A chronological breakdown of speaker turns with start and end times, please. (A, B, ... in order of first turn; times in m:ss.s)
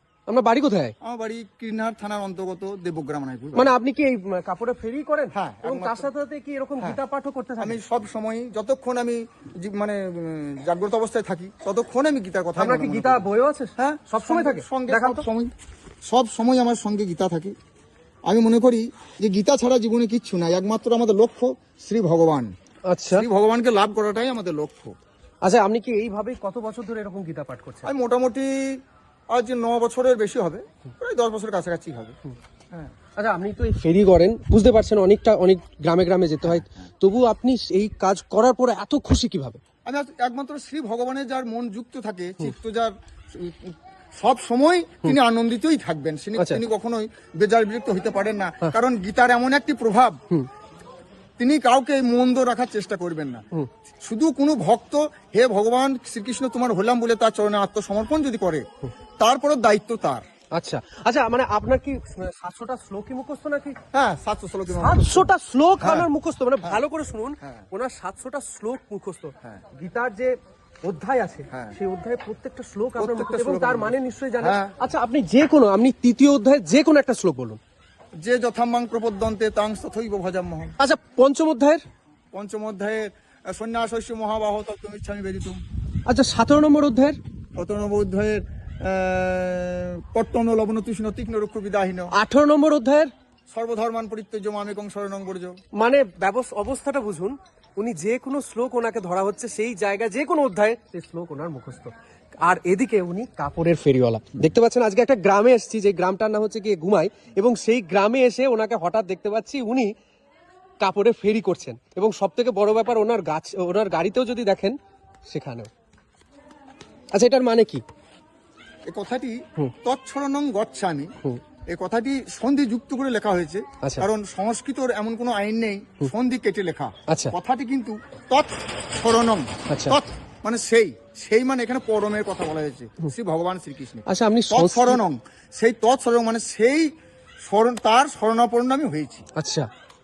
0:00.3-0:00.9 A
0:01.0-0:03.7 B
0:03.6-0:07.8 A
0:05.3-0:06.1 B
0:07.6-0:13.2 B
0:12.6-0:15.2 A
0:13.8-0:15.5 B
0:16.0-0:17.5 B
0:18.3-0:22.5 B
0:22.9-0:23.2 A
0:23.1-0:24.9 B
0:25.4-0:27.9 A
0:27.8-0:28.8 B
0:29.3-0:32.2 B
0:33.2-0:39.6 A
0:36.4-0:36.8 B
0:39.8-0:50.2 B
0:51.4-0:53.4 B
0:54.0-0:58.6 B
0:59.2-1:00.2 B
1:00.5-1:03.8 A
1:03.9-1:05.3 B
1:04.7-1:17.6 A
1:05.8-1:06.1 B
1:11.5-1:11.8 B
1:13.0-1:14.8 B
1:18.2-1:20.8 B
1:20.8-1:21.8 A
1:22.3-1:25.6 B
1:26.1-1:27.2 A
1:27.6-1:32.1 B
1:32.1-1:33.1 A
1:33.5-1:35.6 B
1:35.8-1:49.9 A
1:50.8-1:54.8 A
1:55.3-1:55.7 A
1:57.1-1:57.8 A
1:58.9-2:01.1 B
2:01.7-2:16.9 B
2:03.8-2:04.1 A
2:07.1-2:07.4 A
2:09.7-2:10.0 A
2:14.1-2:15.0 A
2:17.4-2:19.2 B
2:19.4-2:19.7 A